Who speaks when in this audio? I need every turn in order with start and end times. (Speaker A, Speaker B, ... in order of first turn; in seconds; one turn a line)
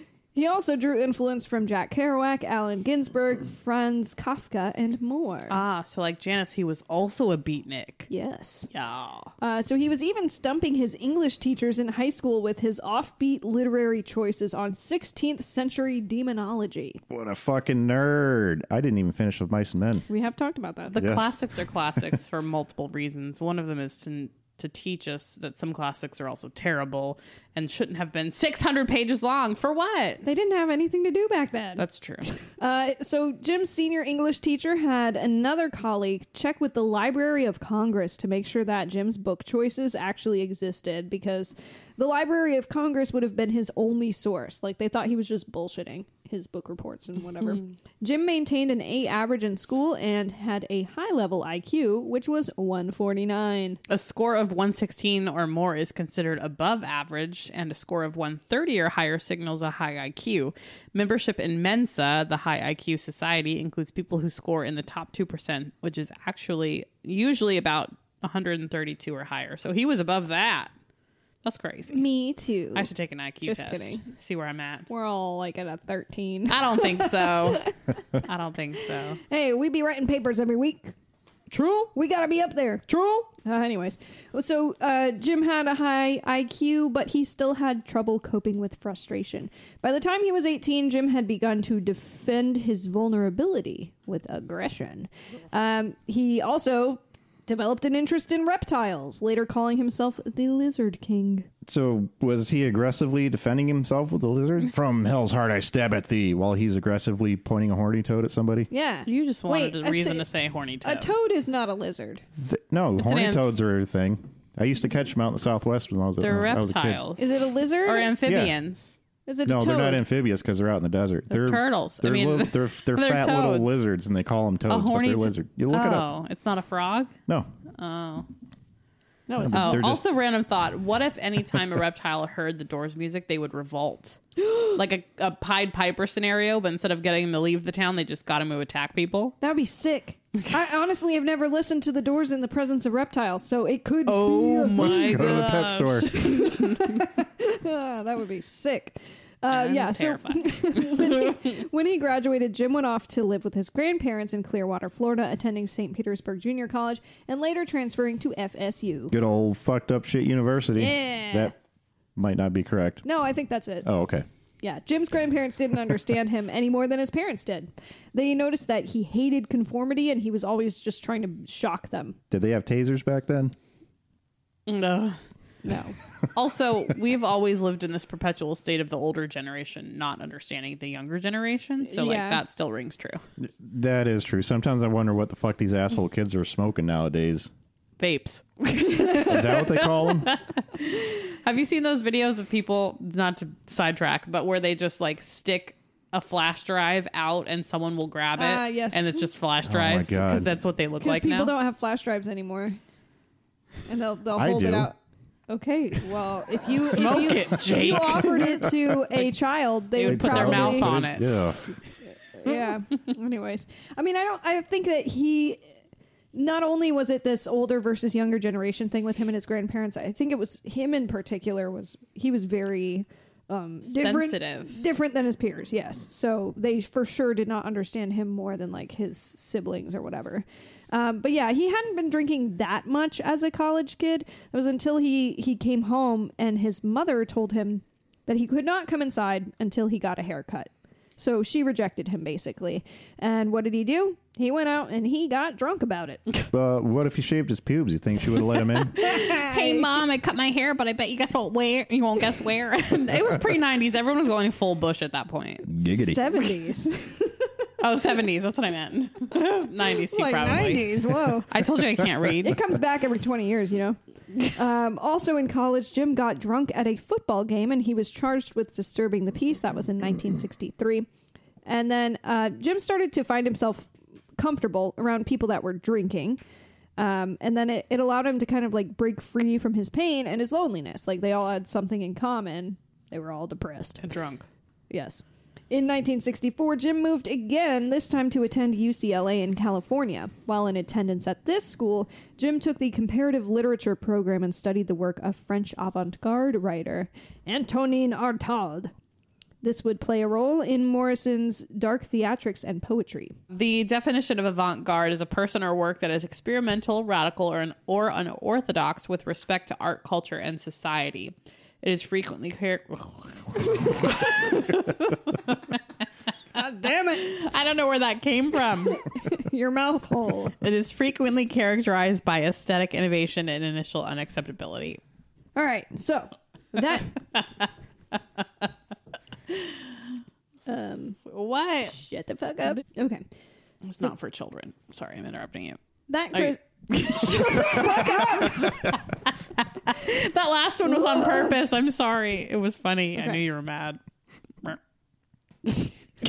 Speaker A: 0.3-5.6
Speaker B: 5.5-8.1
Speaker A: 8.1-8.7
Speaker B: 8.7-9.3
Speaker A: 9.4-17.0
Speaker C: 17.1-20.1
Speaker A: 20.1-21.1
Speaker B: 20.9-30.2
Speaker C: 21.0-21.4
Speaker A: 30.2-31.8
Speaker B: 31.8-32.4
Speaker A: 32.5-53.8
Speaker B: 53.9-70.7
Speaker B: 71.4-72.0
Speaker A: 71.9-72.9
Speaker B: 72.7-74.9
Speaker A: 73.4-74.0
Speaker A: 74.9-78.0
Speaker B: 76.5-79.2
Speaker A: 79.2-80.9
Speaker B: 81.5-81.9
Speaker A: 82.0-82.8
Speaker B: 82.9-83.3
Speaker A: 83.4-101.5
Speaker C: 101.7-108.7
Speaker A: 108.7-110.2
Speaker B: 109.1-111.1
Speaker A: 110.8-112.2
Speaker C: 112.4-117.0
Speaker B: 113.0-113.5
Speaker B: 116.2-119.0
Speaker A: 117.2-118.1
Speaker C: 118.2-118.6
Speaker A: 119.3-120.0
Speaker C: 119.5-126.1
Speaker B: 121.3-123.8
Speaker B: 124.7-127.1
Speaker B: 127.8-128.3
Speaker A: 129.3-129.8
Speaker C: 129.4-130.1
Speaker B: 129.5-139.4
Speaker A: 134.4-134.7
Speaker A: 139.4-145.4
Speaker B: 144.1-147.0
Speaker C: 144.8-146.1
Speaker A: 146.1-159.2
Speaker B: 149.5-151.4
Speaker C: 159.1-161.5
Speaker A: 160.8-161.5
Speaker C: 162.2-163.0
Speaker A: 163.1-163.9
Speaker C: 163.8-164.3
Speaker A: 164.6-172.2
Speaker C: 172.3-173.5
Speaker B: 174.7-183.2
Speaker A: 175.7-175.9
Speaker A: 181.9-182.4
Speaker C: 183.4-187.5
Speaker B: 188.0-201.5
Speaker A: 188.7-189.4
Speaker C: 189.2-190.3
Speaker A: 198.4-199.3
Speaker C: 199.7-200.5
Speaker A: 201.0-202.8
Speaker A: 203.9-205.0
Speaker C: 204.4-204.9
Speaker A: 205.5-211.0
Speaker B: 206.7-209.0
Speaker B: 210.0-212.6
Speaker C: 210.1-211.7
Speaker A: 212.3-215.7
Speaker A: 216.3-246.2
Speaker B: 223.8-224.8
Speaker C: 246.5-249.0
Speaker B: 249.0-255.7
Speaker A: 249.0-249.9
Speaker C: 255.7-256.2
Speaker A: 255.8-257.7
Speaker B: 257.8-260.9
Speaker A: 259.3-261.5
Speaker B: 261.5-262.6
Speaker A: 262.4-271.1
Speaker A: 271.7-276.4
Speaker A: 277.0-284.0
Speaker B: 284.0-284.5
Speaker A: 284.9-298.9
Speaker A: 299.6-303.4
Speaker B: 303.5-315.8
Speaker A: 316.6-317.4
Speaker B: 317.1-319.1
Speaker A: 318.9-320.6
Speaker B: 320.6-325.0
Speaker A: 325.6-327.1
Speaker B: 329.5-330.0
Speaker A: 330.7-331.2
Speaker B: 330.9-332.0
Speaker A: 331.9-333.2
Speaker B: 333.8-335.8
Speaker A: 336.1-339.0
Speaker B: 336.3-339.1
Speaker B: 339.6-344.0
Speaker A: 340.9-341.5